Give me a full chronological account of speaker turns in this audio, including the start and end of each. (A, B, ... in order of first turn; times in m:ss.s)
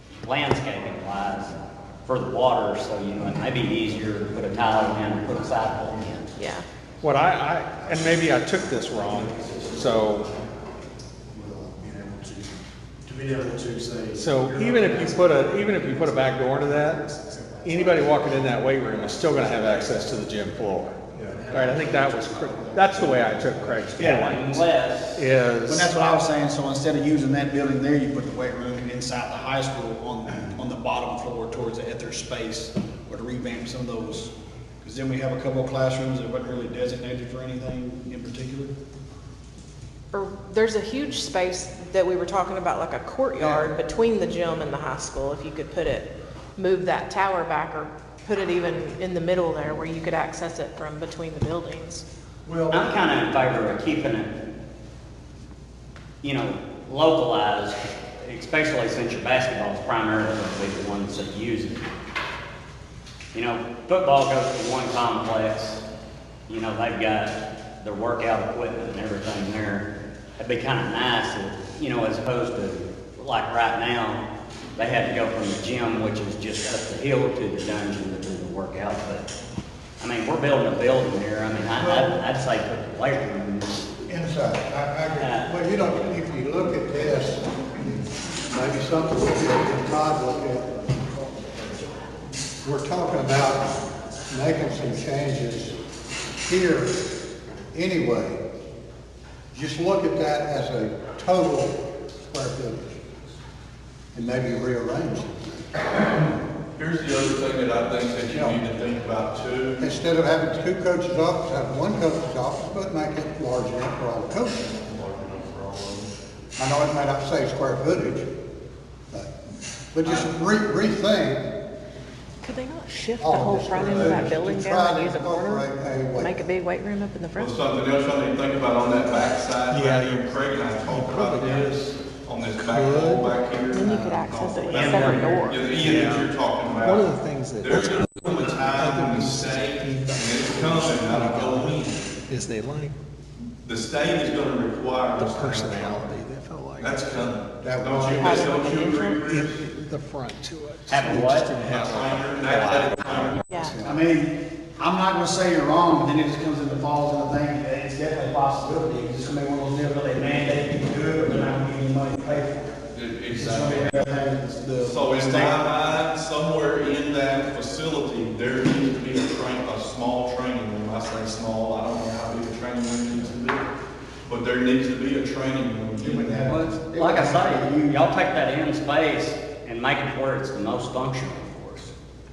0:00.2-0:06.3 A
0:06.4-0:06.6 B
0:07.0-0:10.3 C
0:09.0-0:10.5 D
0:11.3-0:19.7 D
0:14.1-0:17.0 C
0:17.6-0:26.1 C
0:21.3-0:24.1 E
0:21.5-0:21.9 D
0:24.0-0:25.2 A
0:25.7-0:38.7 E
0:40.1-0:52.0 B
0:52.4-0:53.0 F
0:52.7-0:54.3 A
0:56.2-1:01.9 A
1:03.3-1:05.8 A
1:06.5-1:14.2 A
1:14.8-1:19.3 A
1:20.0-1:23.9 A
1:21.8-1:22.2 F
1:24.1-1:31.7 F
1:25.2-1:26.2 A
1:32.6-1:33.7 F
1:34.3-1:35.7 F
1:36.4-1:37.0 F
1:37.7-1:38.4 F
1:39.5-1:43.0 F
1:44.1-1:46.3 F
1:46.7-1:49.8 G
1:48.3-1:48.6 F
1:49.8-1:54.7 F
1:54.7-1:56.1 G
1:56.6-1:58.3 F
1:59.1-1:59.4 F
1:59.9-2:01.5 F
2:02.4-2:05.6 B
2:03.2-2:06.4 F
2:03.9-2:04.3 G
2:06.2-2:07.7 B
2:07.4-2:22.1 G
2:09.7-2:10.3 C
2:10.9-2:11.8 C
2:12.6-2:13.3 C
2:13.7-2:15.7 B
2:13.9-2:16.3 C
2:16.8-2:21.8 C
2:22.3-2:22.9 C
2:23.6-2:26.1 G
2:25.2-2:27.3 C
2:26.8-2:29.6 G
2:27.6-2:28.6 F
2:28.1-2:29.2 B
2:29.2-2:33.8 C
2:30.9-2:31.5 A
2:31.6-2:33.4 G
2:33.5-2:33.8 B
2:33.6-2:34.0 F
2:33.8-2:42.8 E
2:42.9-2:53.7 G
2:43.3-2:46.0 E
2:54.2-2:56.6 G
2:56.0-2:58.2 E
2:56.4-3:01.9 A